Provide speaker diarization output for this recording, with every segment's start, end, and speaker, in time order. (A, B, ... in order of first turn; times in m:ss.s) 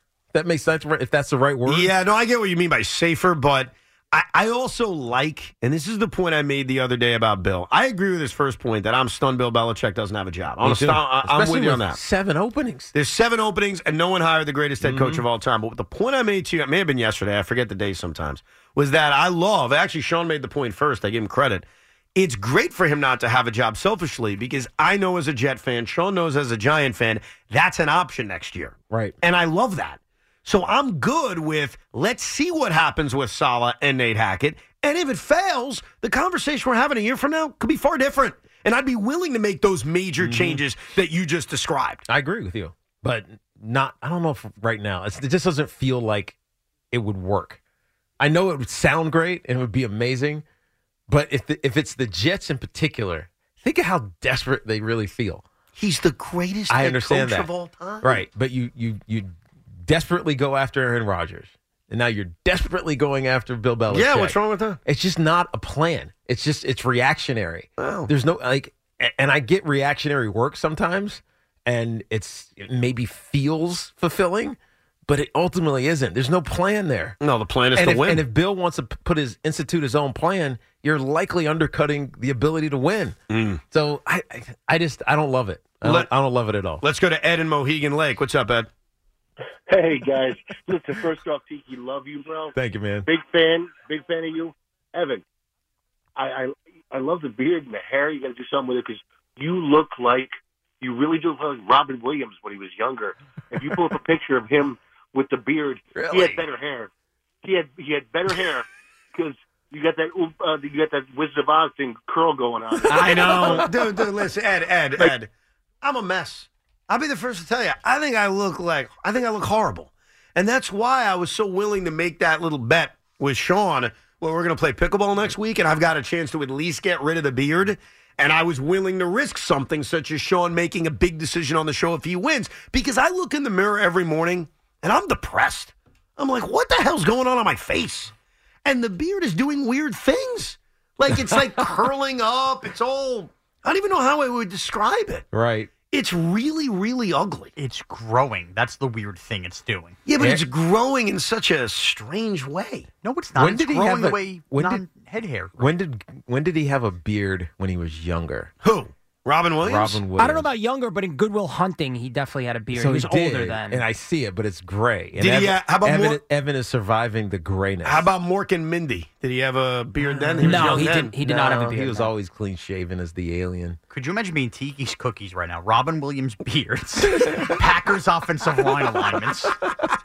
0:00.3-0:01.9 A
0:01.6-0:12.0 B
0:10.6-0:12.9 A
0:12.9-0:42.0 B
0:14.8-0:15.2 A
0:28.9-0:29.2 A
0:40.2-0:40.6 A
0:42.1-0:46.4 A
0:46.9-0:47.6 A
0:48.2-0:50.4 A
0:51.1-0:55.4 A
0:55.8-0:58.2 B
0:56.7-0:57.5 A
0:58.0-1:17.2 A
1:03.9-1:04.8 B
1:07.8-1:08.1 B
1:17.2-1:18.2 B
1:17.7-1:23.2 A
1:23.3-1:23.6 B
1:23.7-1:26.8 A
1:25.8-1:26.1 B
1:26.8-1:28.7 B
1:29.7-1:32.5 C
1:32.5-1:33.1 A
1:33.1-1:35.2 C
1:36.2-1:46.9 C
1:46.0-1:46.4 A
1:47.4-1:53.7 C
1:52.8-1:53.9 A
1:52.9-1:55.3 B
1:55.8-2:18.1 B
2:18.6-2:25.2 B
2:21.1-2:21.6 A
2:25.3-2:25.7 A
2:25.9-2:27.5 B
2:27.6-2:30.0 D
2:30.0-2:32.9 B
2:30.2-2:30.4 A
2:33.0-2:35.6 D
2:33.4-2:34.8 A
2:35.6-2:38.5 A
2:38.6-2:40.0 B
2:39.6-2:40.5 A
2:40.2-2:43.8 E
2:42.7-2:48.1 A
2:45.2-2:46.2 B
2:47.8-2:51.2 B
2:50.1-2:53.8 A
2:50.4-2:52.1 E
2:53.9-2:59.6 D